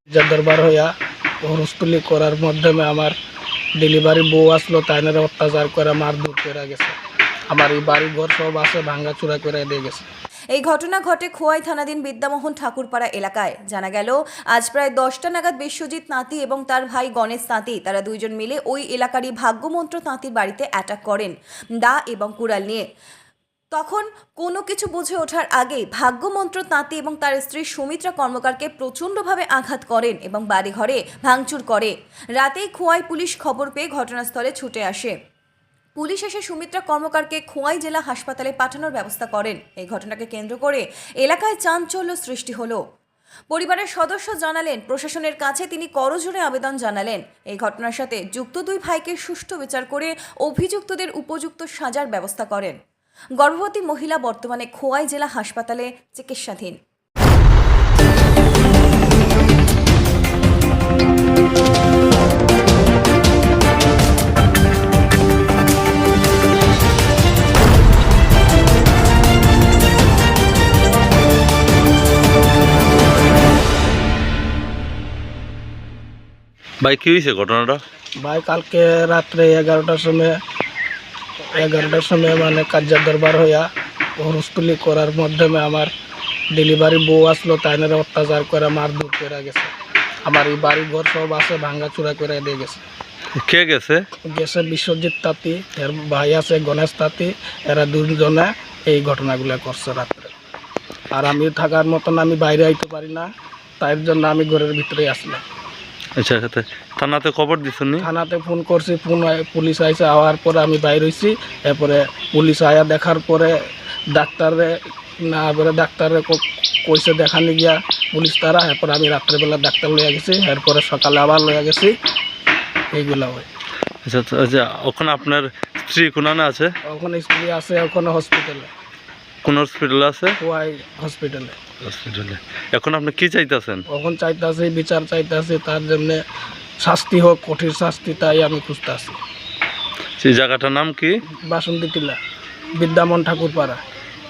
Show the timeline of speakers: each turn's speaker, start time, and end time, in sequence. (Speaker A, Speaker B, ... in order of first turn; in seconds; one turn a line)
Speaker A: 0.1-0.9
Speaker A: 1.4-3.1
Speaker A: 3.8-7.0
Speaker A: 7.5-10.1
Speaker B: 10.5-22.8
Speaker B: 23.8-35.1
Speaker B: 36.0-42.8
Speaker B: 43.5-52.8
Speaker B: 53.4-56.8
Speaker C: 76.8-77.8
Speaker A: 78.2-80.4
Speaker A: 81.5-85.9
Speaker A: 86.5-89.7
Speaker A: 90.2-92.8
Speaker C: 93.4-94.1
Speaker A: 94.2-100.3
Speaker A: 101.1-105.4
Speaker C: 106.2-108.1
Speaker A: 108.0-113.6
Speaker A: 114.1-122.0
Speaker A: 122.9-123.5
Speaker C: 124.0-126.7
Speaker A: 126.8-128.7
Speaker C: 129.4-130.4
Speaker A: 130.4-131.6
Speaker C: 131.8-133.8
Speaker A: 133.9-136.2
Speaker A: 136.8-139.2
Speaker C: 140.2-141.2
Speaker A: 141.5-142.2
Speaker A: 142.8-143.8